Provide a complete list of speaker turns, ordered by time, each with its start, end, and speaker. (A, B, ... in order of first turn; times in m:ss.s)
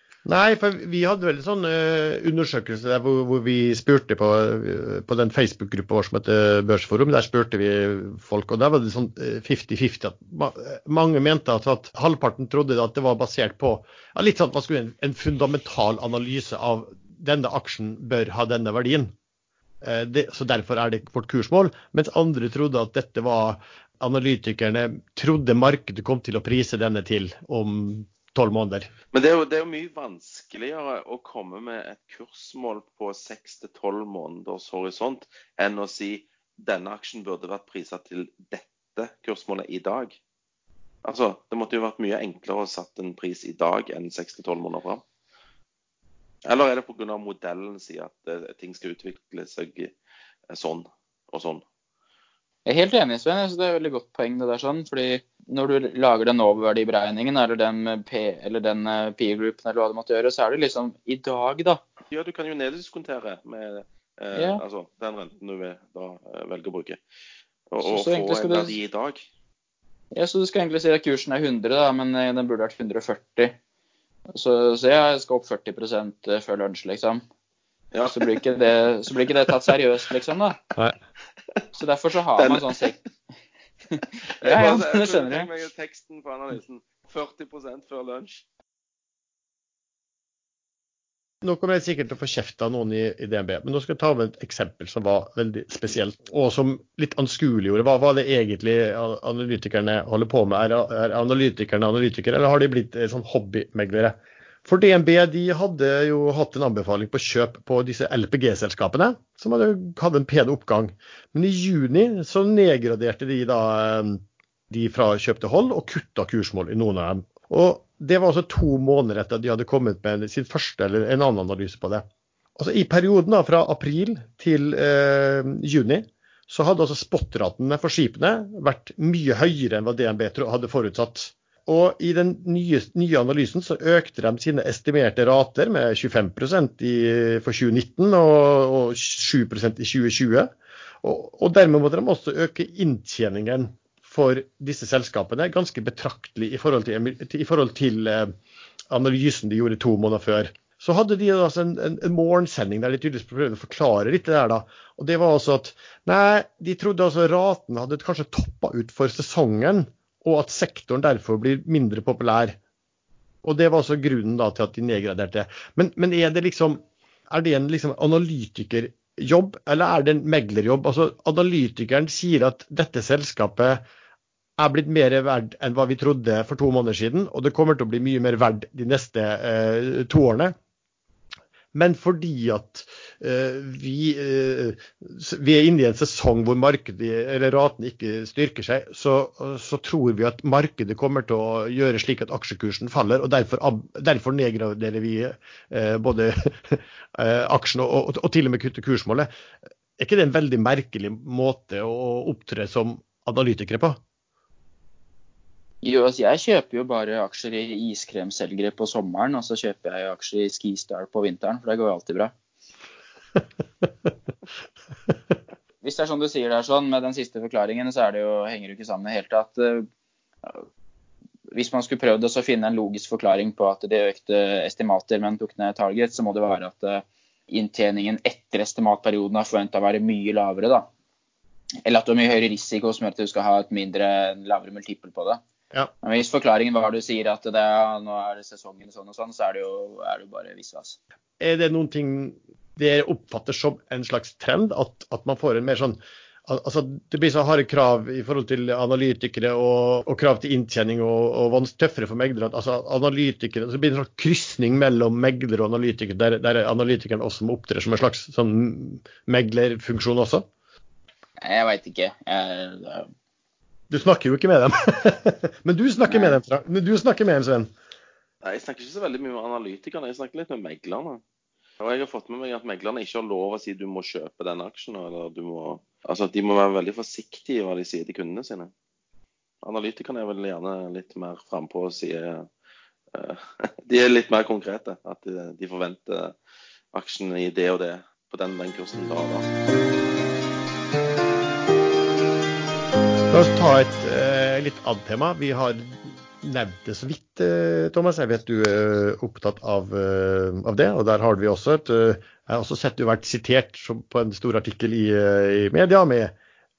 0:00.2-0:19.1 A
0:19.8-0:28.9 A
0:29.1-0:40.2 B
0:41.0-0:45.0 B
0:46.4-0:49.9 B
0:50.5-0:51.6 B
0:52.6-1:01.8 C
1:02.1-1:07.0 B
1:04.3-1:04.6 C
1:07.7-1:09.2 B
1:07.8-1:08.8 C
1:10.1-1:13.5 C
1:14.3-1:17.2 C
1:17.9-1:18.4 B
1:18.0-1:20.6 C
1:21.7-1:23.0 C
1:22.4-1:22.8 B
1:23.9-1:25.5 C
1:24.4-1:28.4 B
1:31.4-2:02.0 A
2:02.6-2:20.5 A
2:21.0-2:28.3 A
2:28.9-2:42.6 A
2:43.4-2:53.8 A
2:54.6-3:00.5 A
3:01.7-3:19.3 A
3:20.0-3:24.0 A
3:25.8-3:32.3 C
3:35.8-3:39.9 C
3:41.5-3:50.8 C
3:51.8-3:55.4 C
3:56.0-4:01.0 C
4:01.4-4:20.4 A
4:21.4-4:23.1 C
4:23.9-4:27.7 A
4:26.0-4:26.4 C
4:28.4-4:31.2 B
4:31.8-4:38.7 B
4:39.6-4:42.5 B
4:43.1-4:46.3 B
4:46.9-4:49.5 B
4:53.3-5:06.3 A